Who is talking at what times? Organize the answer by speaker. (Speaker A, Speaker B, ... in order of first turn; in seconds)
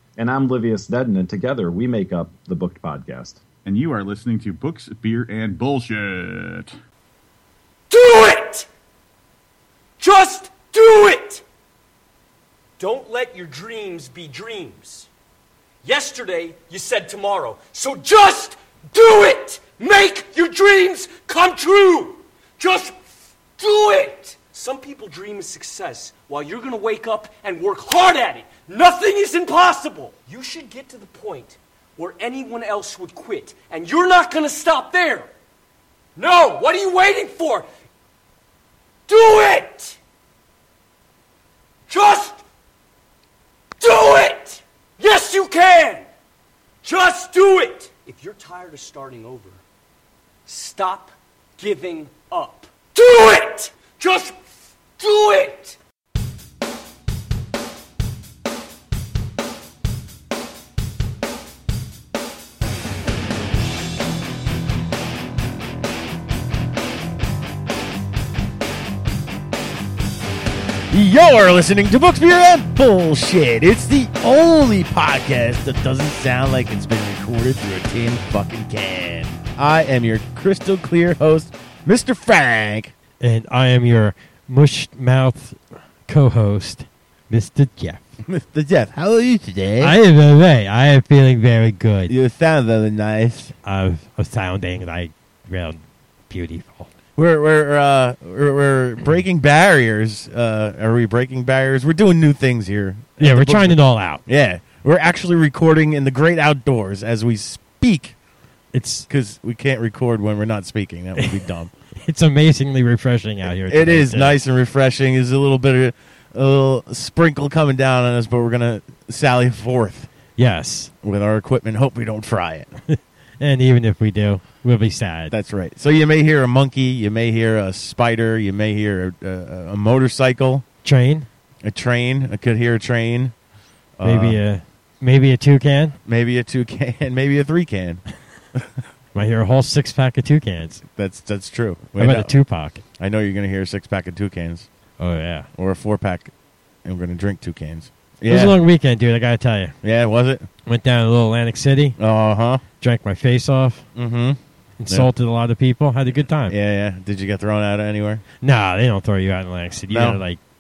Speaker A: 0.2-3.5
Speaker B: 3.6-6.7
Speaker C: 7.9-8.7, 10.0-11.4, 12.8-15.1, 15.8-23.0, 23.6-35.3, 36.2-37.7, 39.1-40.0, 41.9-42.4, 43.8-46.0, 46.8-49.6, 50.5-54.4, 55.0-55.8
Speaker D: 70.9-82.9, 88.2-90.0, 92.1-93.5, 97.2-108.2, 109.1-111.7, 113.7-120.1, 121.0-122.7, 125.3-130.6, 131.6-133.3, 134.0-134.4, 136.1-138.0, 140.8-142.3, 143.0-144.7, 145.6-146.3, 146.8-148.6, 149.8-150.5, 152.0-152.6, 154.0-155.1, 156.5-158.2, 159.9-160.2
Speaker E: 83.2-88.0, 89.8-92.1, 93.6-96.9, 103.2-104.2, 108.7-109.1, 112.0-114.4, 120.4-120.9, 122.9-125.3, 130.8-131.3, 134.0-136.0, 139.2-140.8, 142.0-142.8, 145.0-145.5, 148.3-149.8, 150.7-152.0, 152.8-153.9, 154.8-156.6, 158.4-160.4